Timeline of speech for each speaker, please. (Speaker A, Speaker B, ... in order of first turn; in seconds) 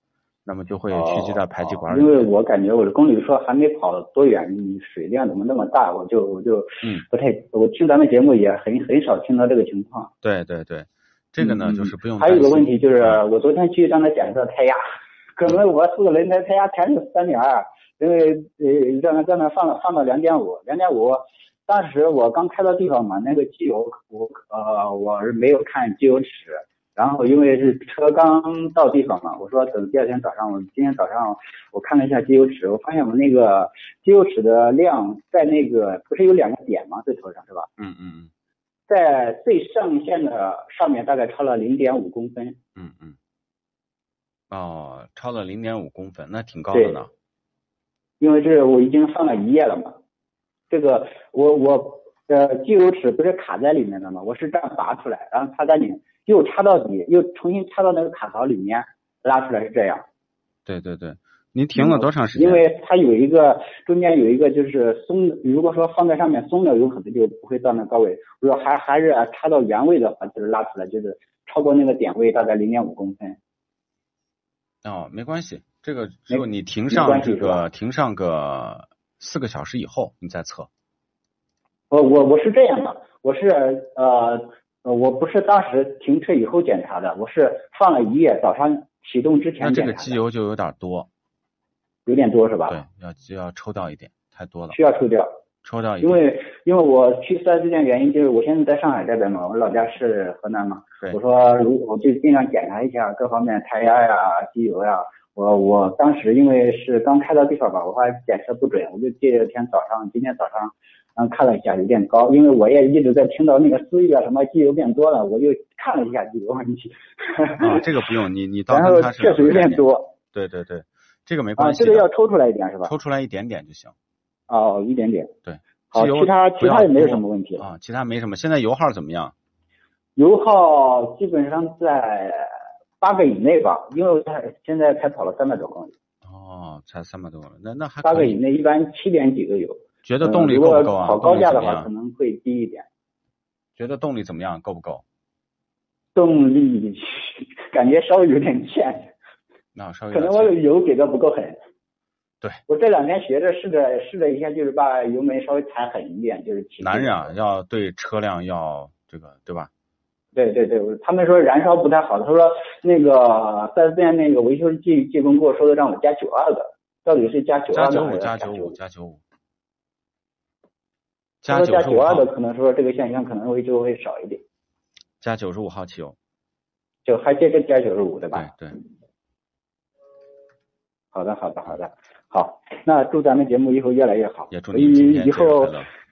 Speaker A: 0.5-2.3, 10.2-13.2, 37.8-38.3, 42.8-43.2, 44.5-47.1, 60.7-62.7, 74.8-80.7, 89.6-91.1, 92.7-94.8, 95.6-96.2, 117.6-122.1, 122.8-123.9, 125.5-129.3, 136.2-138.4, 140.1-141.9, 143.8-145.0, 149.8-150.6, 156.8-159.7, 167.7-169.2, 171.4-172.3, 175.2-176.2, 178.3-178.8, 184.5-185.9
Speaker B: 0.9-10.1, 11.4-14.8, 15.4-37.7, 38.9-42.6, 46.7-47.0, 48.2-50.0, 50.7-60.0, 61.8-73.4, 76.3-77.7, 81.9-90.2, 92.1-92.8, 94.7-95.3, 96.0-117.9, 118.7-120.1, 121.6-122.9, 124.5-125.3, 125.9-127.7, 130.2-135.9, 138.0-142.9, 146.2-149.1, 150.1-151.6, 152.7-157.3, 160.3-168.8, 171.5-174.4, 177.1-178.5, 181.1-185.8